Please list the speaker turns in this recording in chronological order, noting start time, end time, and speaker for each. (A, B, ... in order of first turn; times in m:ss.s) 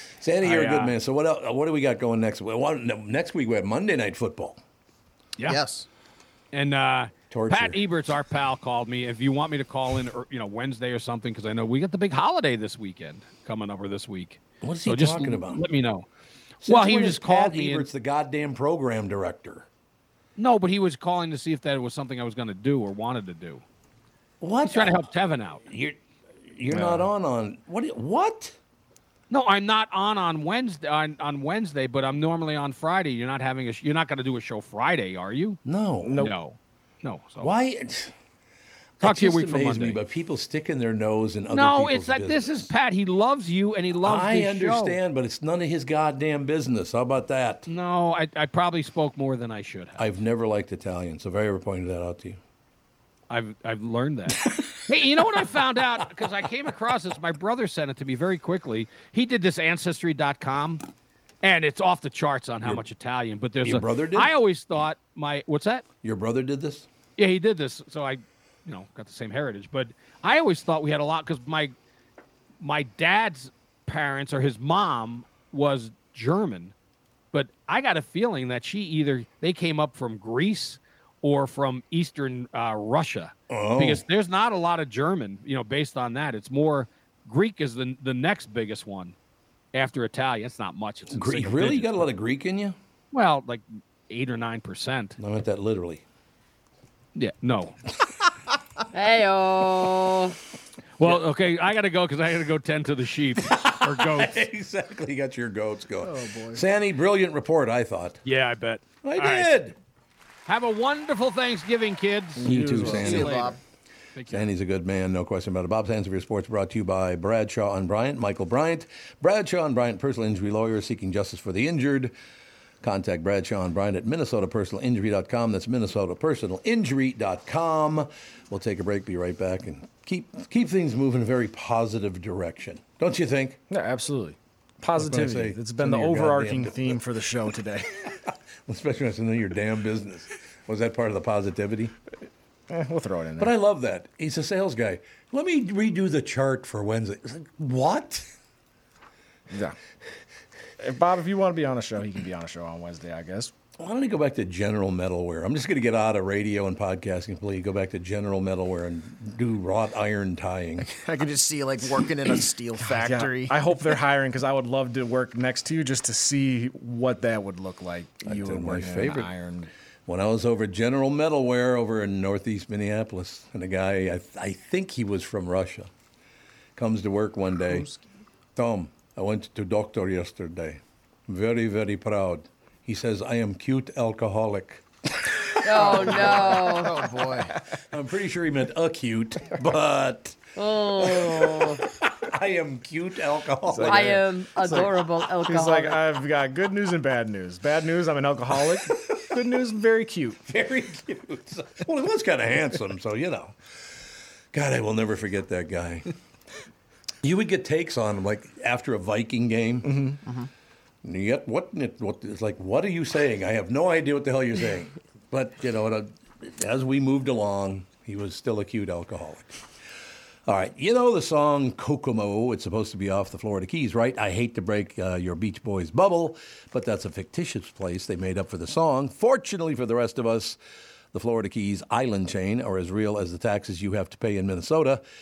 0:00.2-0:04.6 A
0:00.4-0:00.9 B
0:05.4-0:05.9 C
0:06.5-0:16.1 B
0:07.3-0:07.8 A
0:14.6-0:15.6 A
0:16.6-0:19.7 A
0:16.6-0:17.9 B
0:20.4-0:23.6 B
0:24.4-0:25.0 A
0:24.6-0:25.6 B
0:25.7-0:26.0 A
0:26.5-0:28.6 A
0:26.7-0:27.1 D
0:29.3-0:35.6 B
0:35.6-0:36.2 A
0:36.0-0:36.3 D
0:36.1-0:37.5 B
0:37.4-0:38.1 A
0:39.0-0:42.7 A
0:39.0-0:40.0 B
0:41.5-0:45.0 B
0:44.0-0:47.7 A
0:47.6-0:50.0 B
0:50.0-0:52.4 A
0:53.3-1:00.8 B
1:01.4-1:05.8 B
1:03.6-1:04.3 A
1:06.0-1:06.9 A
1:07.2-1:11.7 B
1:12.6-1:16.7 B
1:17.3-1:29.2 B
1:23.5-1:24.0 A
1:29.7-1:32.0 B
1:31.1-1:32.8 A
1:33.1-1:35.2 B
1:35.2-1:36.0 A
1:37.1-1:37.8 B
1:38.9-1:40.4 E
1:41.0-1:44.4 B
1:43.4-1:48.2 A
1:46.0-1:46.6 C
1:48.2-1:49.5 B
1:49.0-1:49.8 A
1:50.4-1:53.6 B
1:52.4-1:53.4 D
1:52.4-1:53.5 A
1:52.6-1:53.6 C
1:54.1-1:54.5 B
1:54.3-2:02.1 A
2:02.8-2:13.6 A
2:13.7-2:18.0 D
2:15.0-2:17.0 A
2:18.7-2:21.9 A
2:22.7-2:23.5 D
2:23.4-2:28.3 A
2:29.5-2:29.8 D
2:30.8-2:33.5 D
2:33.8-2:40.9 A
2:40.9-2:43.6 C
2:42.8-2:49.7 D
2:48.2-2:49.3 A
2:50.1-2:55.9 A
2:56.8-2:57.8 A
2:58.6-3:06.6 A
3:05.6-3:06.9 E
3:05.8-3:07.3 D
3:06.1-3:07.5 C
3:07.9-3:10.4 A
3:10.6-3:11.8 E
3:11.0-3:14.8 A
3:13.7-3:20.4 D
3:13.8-3:16.0 E
3:20.4-3:23.6 A
3:24.5-3:26.1 A
3:27.2-3:30.1 A
3:29.8-3:30.2 D
3:31.0-3:39.6 A
3:40.5-3:50.6 A
3:51.1-3:55.0 A